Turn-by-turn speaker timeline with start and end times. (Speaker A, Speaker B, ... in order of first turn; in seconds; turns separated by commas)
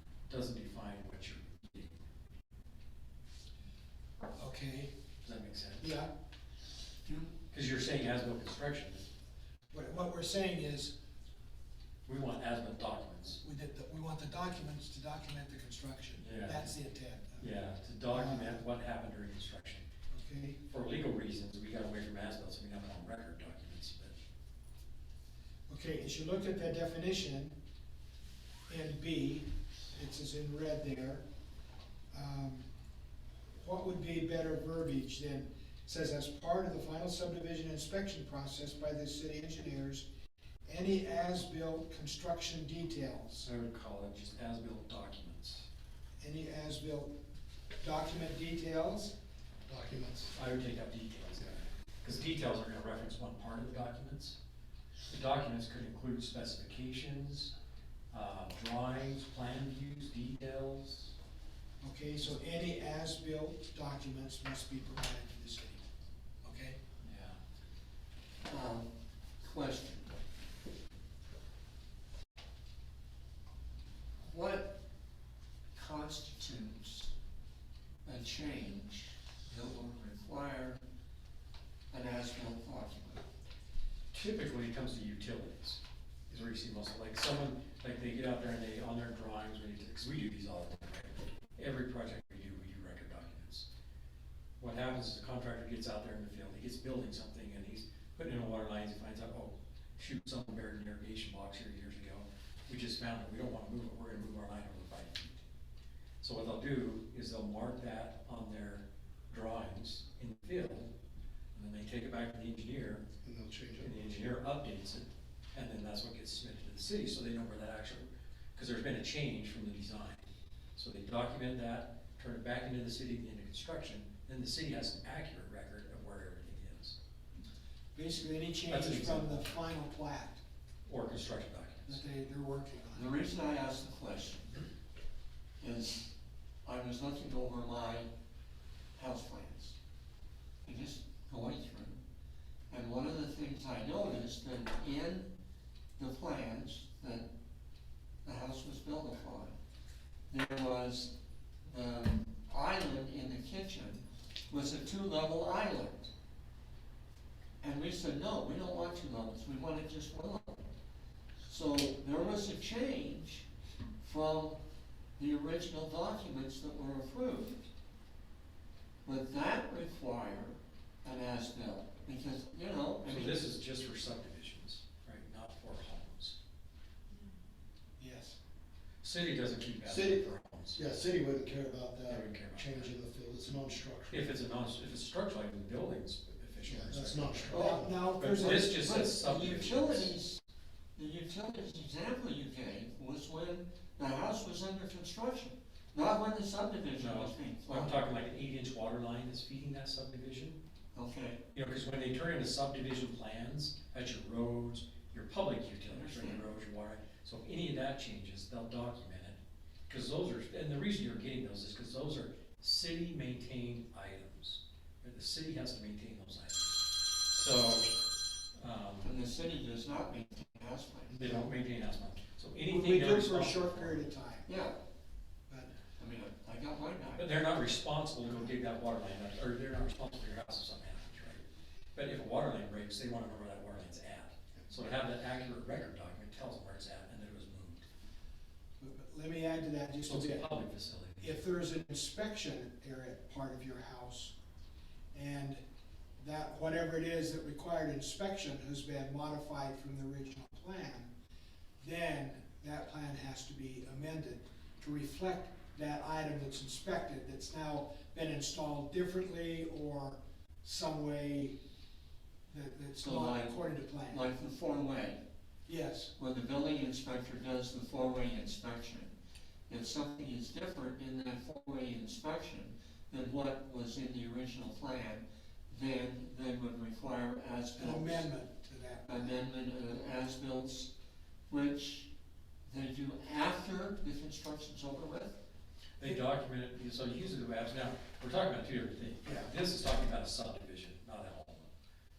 Speaker A: 0.3-2.0, Speaker B: 4.4-4.9, Speaker A: 5.2-5.9, Speaker B: 5.8-6.1, Speaker C: 7.1-7.3, Speaker A: 7.5-9.1, Speaker B: 9.7-10.9, Speaker A: 12.1-13.4, Speaker B: 13.4-17.5, Speaker A: 16.2-16.7, Speaker A: 17.4-19.9, Speaker B: 18.1-18.6, Speaker B: 20.1-20.6, Speaker A: 20.7-24.1, Speaker B: 25.7-27.6, Speaker B: 28.7-31.2, Speaker B: 32.1-32.7, Speaker B: 33.6-40.1, Speaker B: 40.6-43.5, Speaker A: 43.4-45.7, Speaker B: 46.2-47.1, Speaker B: 47.8-49.1, Speaker D: 49.7-50.3, Speaker A: 50.3-54.4, Speaker A: 55.1-57.5, Speaker A: 58.1-61.2, Speaker B: 61.8-65.8, Speaker B: 66.4-66.8, Speaker A: 67.0-67.4, Speaker C: 68.5-68.9, Speaker C: 69.4-70.1, Speaker C: 74.2-74.8, Speaker C: 75.8-77.1, Speaker C: 78.0-80.8, Speaker C: 81.9-83.3, Speaker A: 84.1-93.7, Speaker A: 94.6-105.5, Speaker A: 106.2-110.9, Speaker A: 111.5-113.1, Speaker D: 113.2-113.9, Speaker A: 113.8-127.0, Speaker B: 128.0-130.4, Speaker A: 128.7-129.4, Speaker A: 130.9-132.0, Speaker B: 131.9-133.1, Speaker C: 132.9-134.6, Speaker C: 135.6-136.1, Speaker C: 136.7-138.1, Speaker C: 138.9-139.8, Speaker C: 140.7-142.0, Speaker C: 142.7-145.3, Speaker C: 146.0-147.3, Speaker C: 148.2-149.6, Speaker C: 150.3-151.1, Speaker C: 151.7-156.1, Speaker C: 157.6-160.7, Speaker C: 161.5-163.5, Speaker C: 164.0-164.6, Speaker C: 165.2-167.6, Speaker C: 169.1-173.4, Speaker A: 173.0-176.4, Speaker B: 178.0-178.4, Speaker A: 179.0-180.9, Speaker D: 179.9-184.3, Speaker A: 182.1-182.9, Speaker A: 184.1-190.1, Speaker D: 186.7-188.0, Speaker B: 187.5-188.7, Speaker C: 187.5-187.8, Speaker C: 188.5-190.4, Speaker C: 191.0-198.0, Speaker A: 197.0-200.6, Speaker C: 200.9-201.4, Speaker A: 201.5-218.0, Speaker C: 205.9-206.5, Speaker A: 218.5-219.2, Speaker C: 219.0-221.1, Speaker A: 221.1-224.1, Speaker B: 222.7-224.5, Speaker C: 224.4-224.8, Speaker B: 225.5-225.7, Speaker C: 226.0-227.3, Speaker A: 227.2-237.9, Speaker B: 238.8-240.5, Speaker A: 240.1-241.5, Speaker B: 241.2-244.3, Speaker B: 245.1-245.6, Speaker B: 246.2-251.1, Speaker B: 251.8-261.6, Speaker B: 262.5-264.3, Speaker C: 263.0-265.2, Speaker B: 265.7-266.1, Speaker C: 266.2-269.1, Speaker C: 269.7-278.3, Speaker B: 277.8-279.4, Speaker C: 279.1-280.9, Speaker C: 281.5-282.1, Speaker C: 282.7-285.4, Speaker A: 286.0-291.7, Speaker B: 289.2-289.5